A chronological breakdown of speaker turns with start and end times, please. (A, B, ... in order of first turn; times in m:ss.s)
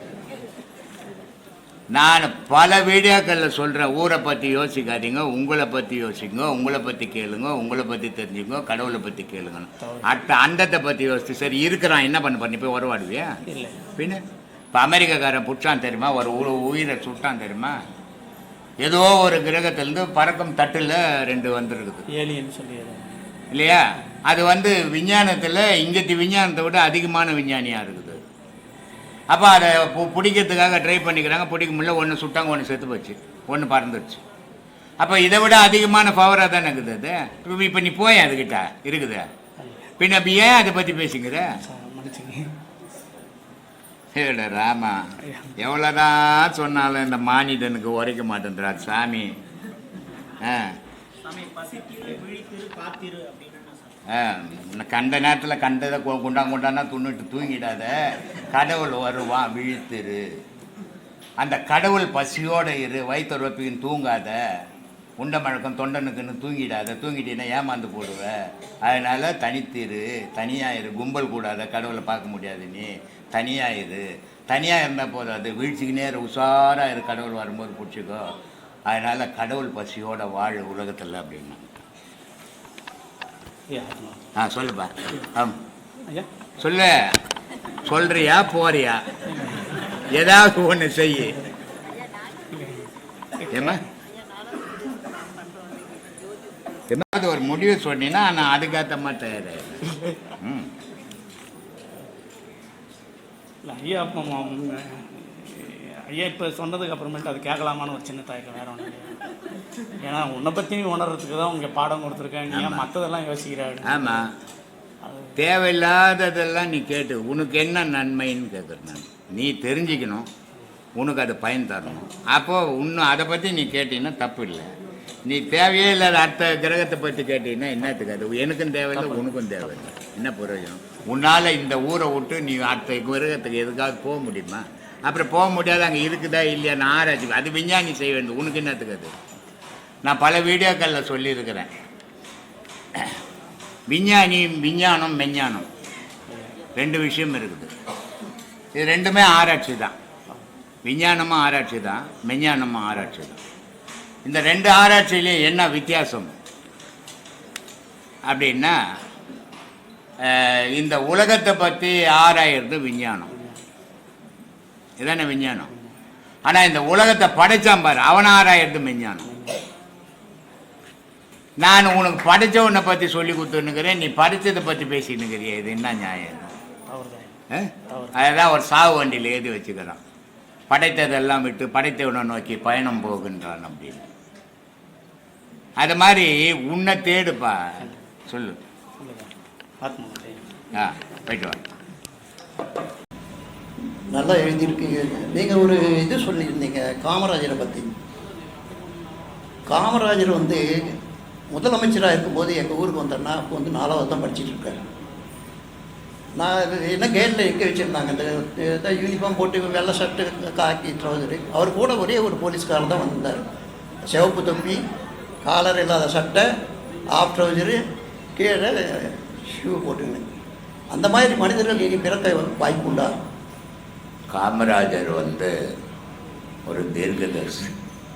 0:01.9-0:13.4 A
0:09.8-0:10.1 B
0:13.5-0:13.8 B
0:14.0-0:14.2 A
0:14.7-0:17.8 A
0:18.8-0:22.0 A
0:22.1-0:23.1 B
0:23.5-0:28.2 A
0:29.3-0:34.2 A
0:35.0-0:39.3 A
0:39.6-0:39.9 B
0:40.0-0:41.6 A
0:41.7-0:42.5 B
0:44.1-0:49.4 A
0:45.2-0:45.5 B
0:50.4-0:50.8 A
0:52.0-0:53.4 B
0:54.1-1:00.4 A
1:01.4-1:04.6 A
1:05.2-1:21.6 A
1:23.7-1:24.2 B
1:24.4-1:25.6 A
1:26.6-1:27.2 A
1:27.8-1:29.2 A
1:29.4-1:29.6 B
1:30.1-1:31.4 A
1:32.5-1:32.8 B
1:33.4-1:33.8 B
1:33.5-1:33.8 A
1:36.9-1:40.7 A
1:43.6-1:49.2 B
1:50.0-1:54.2 B
1:52.5-1:52.9 A
1:53.8-1:54.3 A
1:55.0-1:55.3 B
1:55.4-2:00.3 A
2:01.0-2:04.7 A
2:05.2-2:19.1 A
2:20.0-2:21.7 A
2:23.9-2:25.7 A
2:26.8-2:27.7 A
2:28.7-2:29.9 A
2:30.8-2:33.4 A
2:34.2-2:36.3 A
2:38.2-2:38.8 A
2:40.2-2:43.3 A
2:43.3-2:43.6 B
2:45.0-2:45.7 A
2:46.4-2:49.3 A
2:49.3-2:49.6 B
2:51.6-2:56.5 A
2:56.9-2:57.3 B
2:57.5-3:00.0 A
2:57.9-2:58.1 B
3:00.7-3:04.1 A
3:05.8-3:08.6 A
3:09.0-3:10.5 B
3:10.7-3:11.6 A
3:14.1-3:17.9 C
3:19.7-3:20.9 C
3:21.5-3:24.8 C
3:26.4-3:33.4 C
3:34.1-3:34.8 C
3:35.4-3:36.5 C
3:37.1-3:37.8 C
3:38.4-3:40.3 C
3:40.9-3:43.1 C
3:44.3-3:45.5 A
3:46.6-3:47.7 A